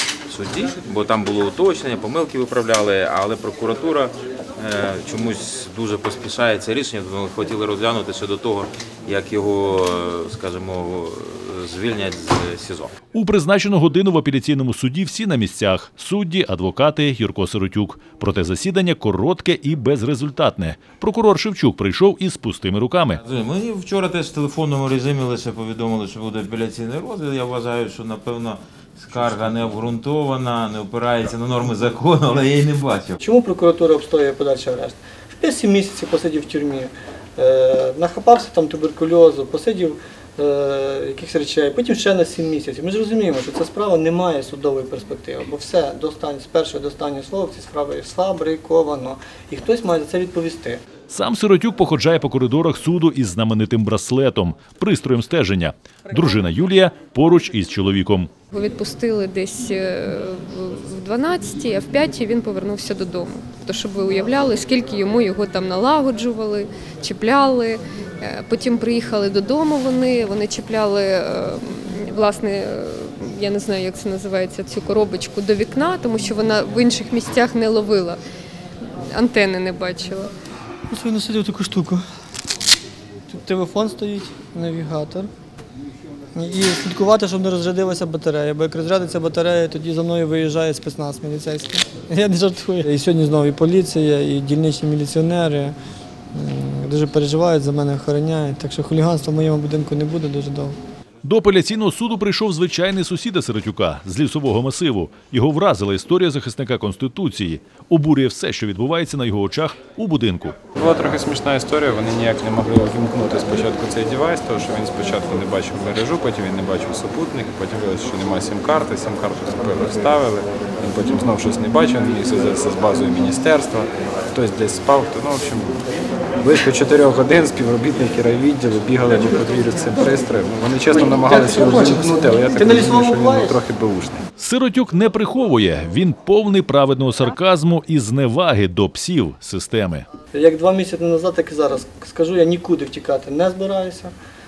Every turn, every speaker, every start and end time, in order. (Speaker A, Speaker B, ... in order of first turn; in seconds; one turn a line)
Speaker A: 0.3-12.9
Speaker B: 13.1-23.2
Speaker A: 23.2-33.2
Speaker C: 33.2-50.8
Speaker B: 51.1-58.3
Speaker D: 58.5-78.2
Speaker D: 79.1-80.3
Speaker C: 80.9-82.0
Speaker C: 83.3-85.3
Speaker C: 86.3-95.7
Speaker C: 96.3-100.8
Speaker B: 101.2-110.6
Speaker E: 110.8-125.8
Speaker E: 126.4-134.2
Speaker C: 131.3-133.6
Speaker B: 134.4-140.0
Speaker C: 140.3-144.1